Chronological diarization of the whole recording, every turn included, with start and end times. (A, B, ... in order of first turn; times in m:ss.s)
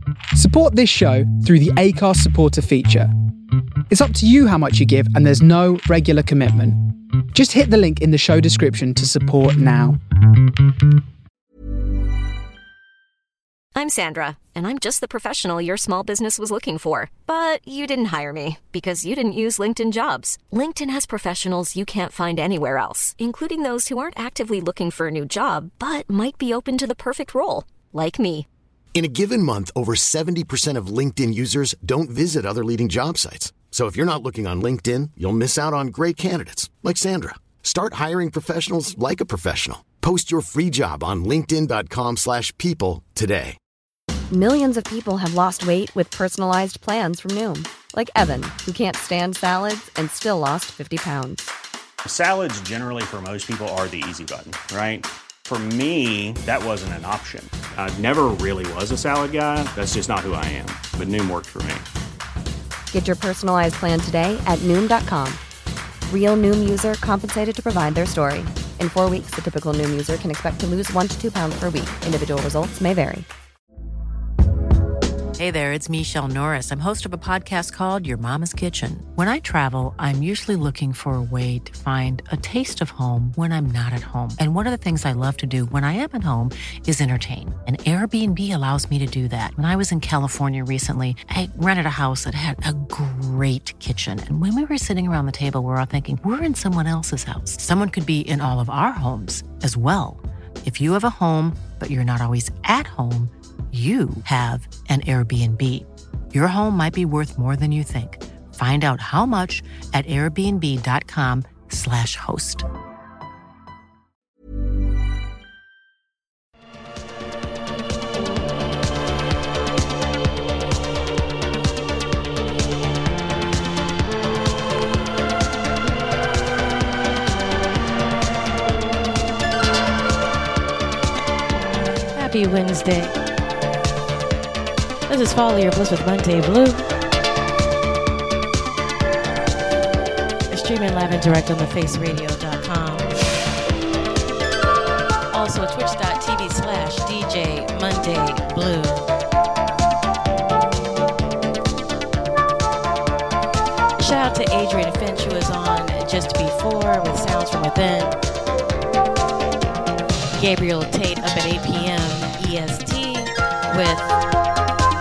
0:00.4-0:03.1 A
0:03.9-0:06.8 A
0:07.3-0:10.0 A
0:13.7-0:28.5 B
0:28.9-0:43.6 C
0:44.3-0:51.4 D
0:52.0-1:01.8 E
1:02.9-1:05.4 D
1:06.1-1:13.2 D
1:15.4-1:52.7 F
2:12.1-2:13.1 G
2:15.1-2:16.8 G
2:20.5-2:23.1 G
2:25.3-2:29.0 G
2:34.0-2:38.2 G
2:40.4-2:44.1 G